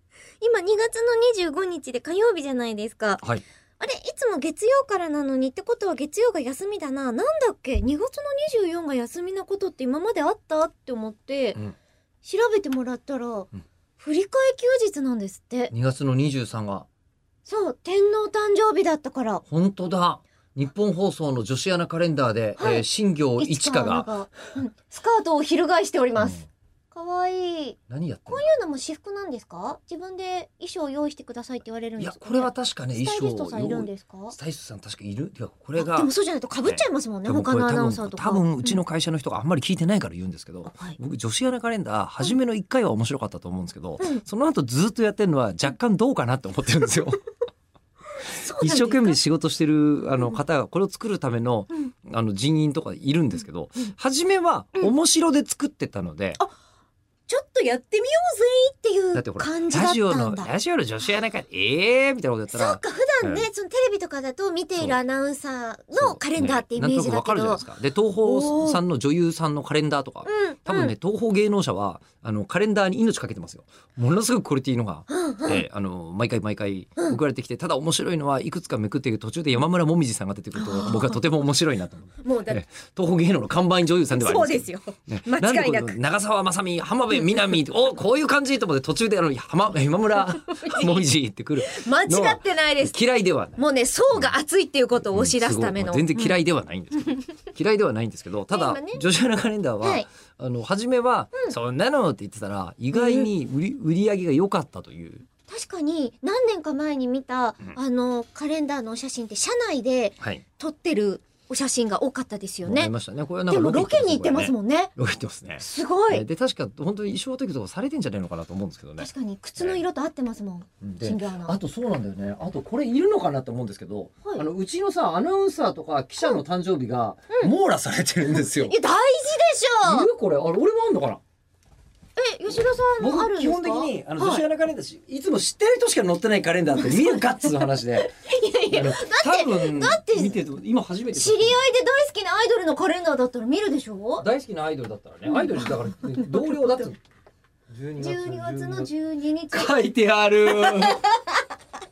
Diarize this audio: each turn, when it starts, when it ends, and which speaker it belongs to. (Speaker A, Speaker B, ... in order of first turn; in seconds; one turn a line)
Speaker A: 0.4-3.2
Speaker A: 3.8-11.6
Speaker A: 12.2-15.7
Speaker B: 15.7-16.9
Speaker A: 17.4-19.4
Speaker B: 19.5-24.1
Speaker A: 22.6-22.8
Speaker A: 23.4-27.8
Speaker B: 26.1-26.4
Speaker B: 27.9-28.4
Speaker A: 28.3-34.4
Speaker B: 32.0-36.1
Speaker A: 35.8-38.8
Speaker B: 36.7-47.2
Speaker A: 40.7-41.0
Speaker A: 48.2-49.2
Speaker B: 48.4-56.4
Speaker A: 57.3-60.5
Speaker B: 59.1-63.5
Speaker A: 62.5-67.6
Speaker B: 66.0-93.6
Speaker A: 68.2-68.8
Speaker A: 70.2-70.9
Speaker A: 75.1-75.6
Speaker A: 80.5-81.2
Speaker A: 82.2-82.6
Speaker A: 84.1-86.0
Speaker A: 90.5-91.0
Speaker A: 91.6-93.0
Speaker A: 93.6-96.4
Speaker B: 95.1-105.3
Speaker A: 98.5-99.0
Speaker A: 99.8-100.1
Speaker A: 102.9-103.3
Speaker A: 105.5-112.9
Speaker B: 112.6-119.1
Speaker A: 113.5-114.9
Speaker A: 115.6-116.2
Speaker A: 119.0-121.6
Speaker B: 120.8-128.8
Speaker A: 128.3-130.1
Speaker B: 129.8-131.2
Speaker A: 132.2-134.4
Speaker B: 133.0-138.1
Speaker A: 136.8-140.4
Speaker B: 138.7-141.6
Speaker A: 141.1-144.2
Speaker B: 144.2-147.0
Speaker A: 145.3-146.2
Speaker B: 147.7-148.9
Speaker A: 148.0-149.7
Speaker B: 149.5-151.0
Speaker A: 150.5-151.4